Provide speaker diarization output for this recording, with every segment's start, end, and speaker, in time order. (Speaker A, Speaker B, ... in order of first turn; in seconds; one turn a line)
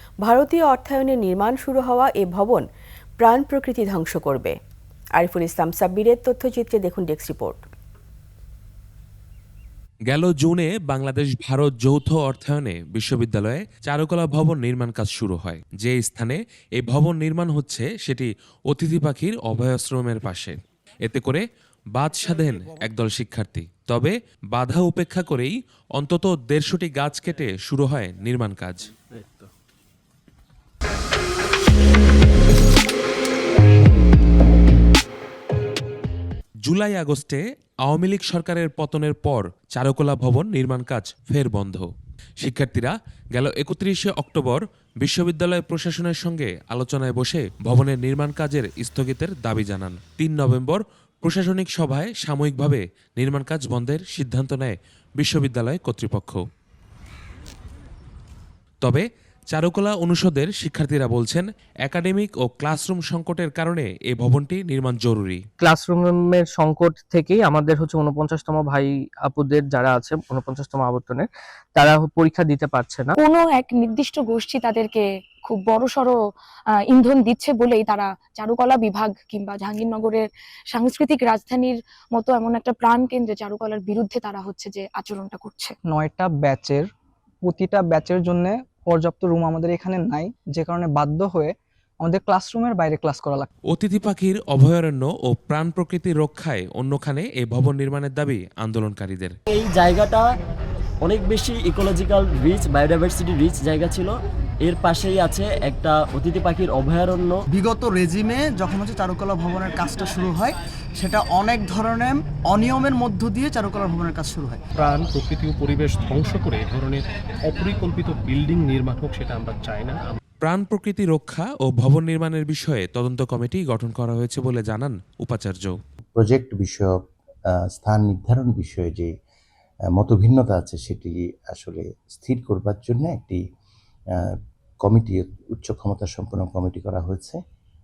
Speaker A: 0.2-2.6
Speaker A: 3.2-4.5
Speaker A: 5.2-7.6
Speaker B: 10.1-21.4
Speaker B: 21.9-28.9
Speaker B: 36.7-41.9
Speaker B: 42.4-56.4
Speaker B: 58.8-65.4
Speaker C: 65.6-71.2
Speaker C: 71.8-73.1
Speaker D: 73.2-76.1
Speaker D: 76.9-85.7
Speaker E: 86.0-86.8
Speaker E: 87.5-91.5
Speaker E: 92.1-93.5
Speaker B: 93.7-99.3
Speaker F: 99.5-100.2
Speaker F: 101.0-104.1
Speaker F: 104.7-107.4
Speaker G: 107.6-114.6
Speaker H: 114.8-120.2
Speaker B: 120.4-125.7
Speaker I: 126.1-126.9
Speaker I: 127.5-129.1
Speaker I: 129.9-133.4
Speaker I: 134.1-137.4